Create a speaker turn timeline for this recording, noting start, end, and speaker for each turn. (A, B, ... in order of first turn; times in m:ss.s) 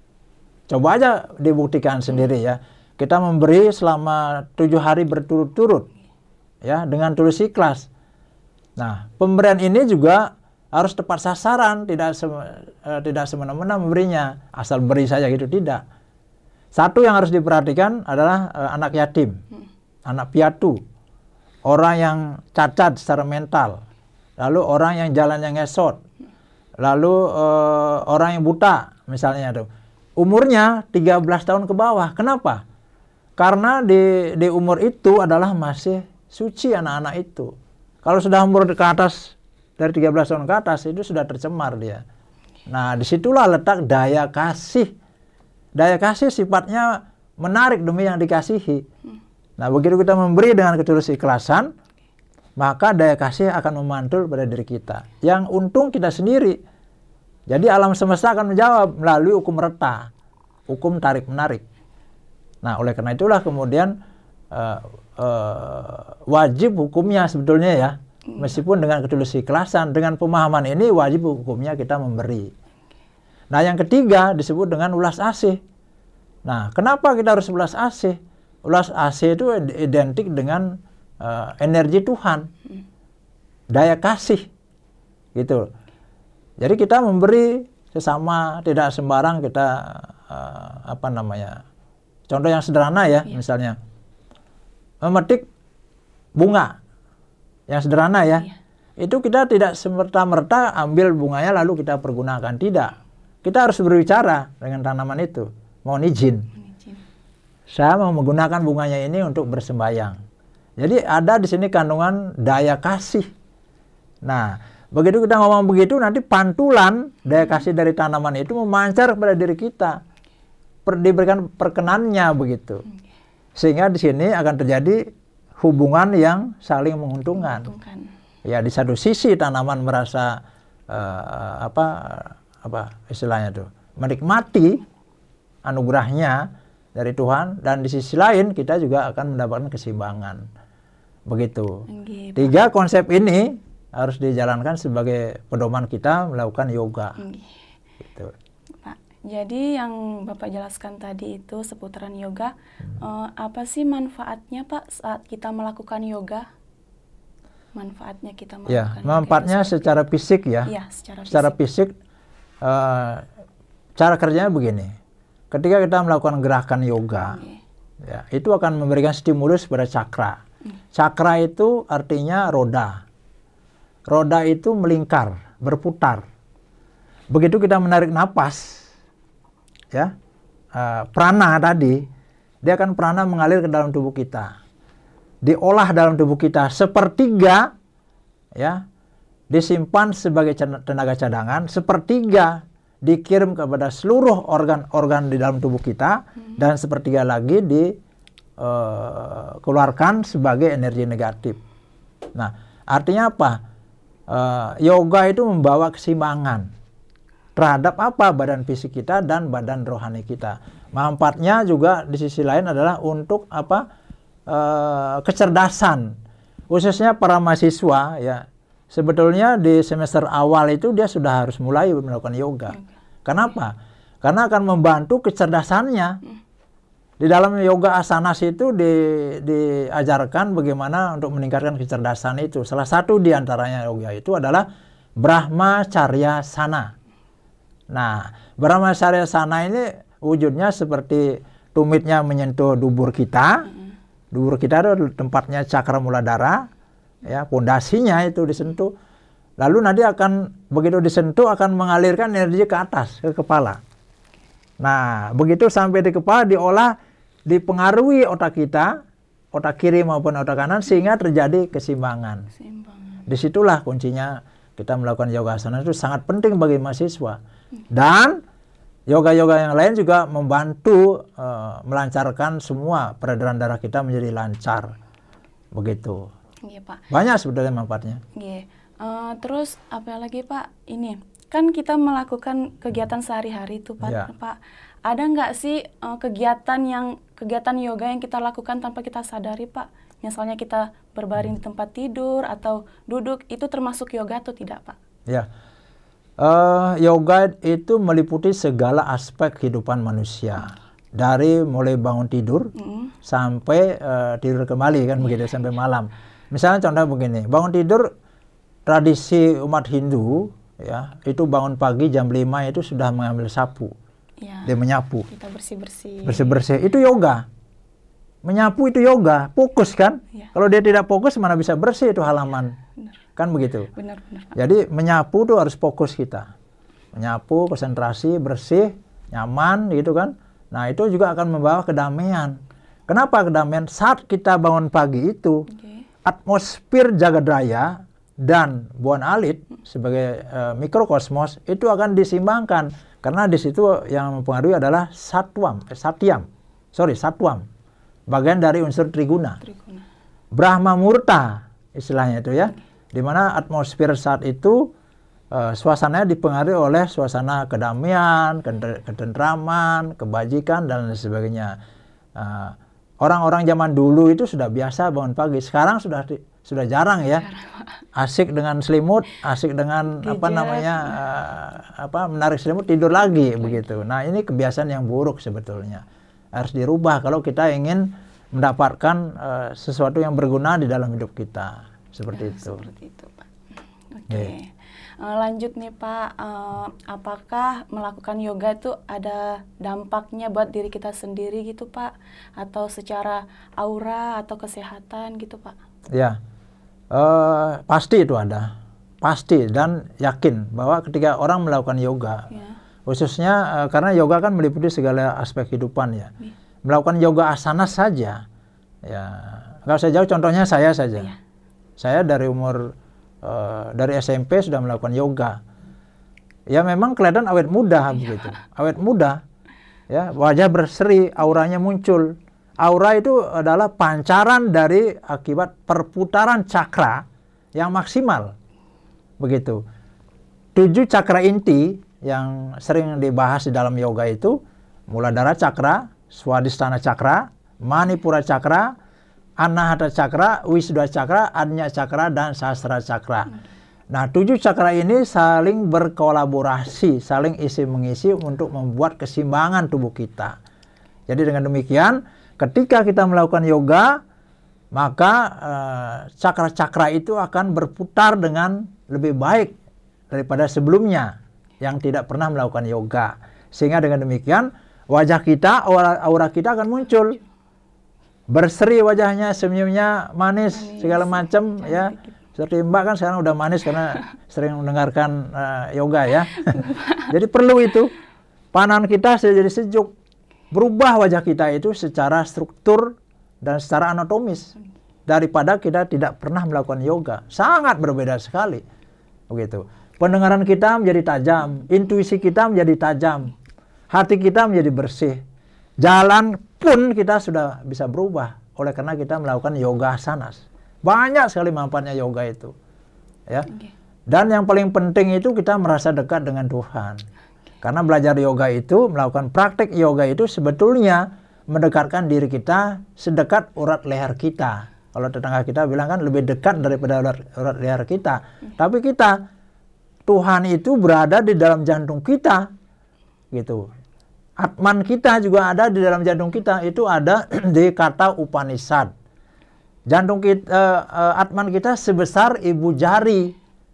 0:00.7-0:05.9 A
0:06.6-0:07.9 A
0:08.8-0:15.8 A
0:16.7-0:19.4 A
0:20.1-0:20.8 A
0:21.7-0:23.8 A
0:24.4-0:26.0 A
0:26.8-0:32.6 A
0:33.4-0:37.5 A
0:38.0-0:42.0 A
0:42.7-0:44.9 A
0:45.8-0:48.8 A
0:49.6-0:51.7 A
0:52.6-0:56.6 A
0:57.5-1:00.1 A
1:00.7-1:01.6 A
1:02.6-1:03.9 A
1:04.5-1:12.5 A
1:13.5-1:15.6 A
1:16.4-1:22.5 A
1:23.7-1:24.4 A
1:25.3-1:25.6 A
1:26.6-1:31.6 A
1:32.3-1:33.8 A
1:35.0-1:35.4 A
1:36.4-1:36.8 A
1:37.7-1:46.5 A
1:46.6-1:47.0 B
1:47.7-1:50.2 A
1:50.8-1:53.2 A
1:54.2-1:59.9 A
2:00.8-2:02.8 A
2:03.6-2:05.0 A
2:05.6-2:07.7 A
2:07.4-2:08.1 B
2:08.4-2:10.4 A
2:10.9-2:14.8 A
2:15.6-2:20.4 A
2:21.3-2:21.8 A
2:21.9-2:22.6 B
2:22.4-2:27.2 A
2:27.2-2:27.6 B
2:28.0-2:28.3 A
2:28.8-2:36.4 B
2:37.8-2:40.0 B
2:38.7-2:40.7 A
2:40.7-2:41.6 B
2:41.3-2:41.9 A
2:42.6-2:43.2 A
2:44.0-2:44.9 A
2:45.5-2:47.4 A
2:47.3-2:47.6 B
2:48.0-2:50.4 A
2:50.9-2:53.0 A
2:54.1-2:56.2 A
2:57.3-2:58.9 A
3:00.7-3:02.0 A
3:02.6-3:04.5 A
3:05.4-3:07.7 A
3:09.5-3:17.9 A
3:18.6-3:21.6 A
3:22.3-3:23.6 A
3:24.3-3:26.7 A
3:27.6-3:33.8 A
3:34.5-3:36.1 A
3:36.7-3:46.2 A
3:47.2-3:54.6 A
3:55.2-3:56.9 A
3:57.9-4:03.7 A
4:04.3-4:06.7 A
4:07.2-4:08.9 A
4:09.6-4:13.8 A
4:14.8-4:16.9 A
4:17.5-4:18.9 A
4:19.5-4:22.5 A
4:22.6-4:23.2 B
4:23.3-4:27.4 A
4:27.9-4:28.4 A
4:29.1-4:34.9 A
4:35.7-4:36.2 A
4:36.6-4:37.0 B
4:37.1-4:38.2 A
4:38.4-4:44.6 B
4:44.0-4:44.3 A
4:45.1-4:55.0 B
4:56.4-5:02.7 A
5:02.8-5:03.1 B
5:03.2-5:08.1 A
5:08.9-5:13.9 A
5:14.4-5:14.7 B
5:14.6-5:15.3 A
5:15.3-5:16.6 B
5:16.2-5:17.4 A
5:18.4-5:22.8 A
5:23.4-5:23.9 A
5:23.9-5:24.6 B
5:24.6-5:26.5 A
5:27.1-5:35.7 A
5:35.8-5:36.0 B
5:36.2-5:47.6 A
5:48.3-5:49.6 A
5:49.6-5:50.0 B
5:50.5-5:54.8 A
5:55.5-6:01.7 A
6:02.4-6:07.5 A
6:07.5-6:07.9 B
6:08.2-6:16.0 A
6:10.2-6:11.2 B
6:16.5-6:22.9 A
6:22.3-6:23.5 B
6:24.1-6:35.8 B
6:24.3-6:24.5 A
6:36.1-6:36.4 A
6:37.1-6:42.5 A
6:43.0-6:46.3 A
6:46.8-6:48.4 A
6:49.0-6:51.3 A
6:52.0-6:55.6 A
6:56.7-6:59.4 A
7:00.1-7:07.2 A
7:07.8-7:08.5 A
7:09.4-7:09.8 A
7:10.7-7:14.5 A
7:15.1-7:18.9 A
7:19.6-7:23.5 A
7:24.1-7:30.6 A
7:31.3-7:34.2 A
7:34.9-7:39.8 A
7:40.3-7:47.4 A
7:48.5-7:58.1 A
7:50.7-7:52.3 B
7:56.7-7:57.3 B
7:58.7-8:00.1 A
8:00.7-8:04.7 A
8:05.3-8:08.8 A
8:09.5-8:13.5 A
8:14.1-8:15.4 A
8:16.0-8:22.7 A
8:24.3-8:27.2 A
8:27.8-8:39.4 A
8:40.3-8:42.7 A
8:43.5-8:43.8 A
8:44.6-8:49.1 A
8:50.1-8:53.6 A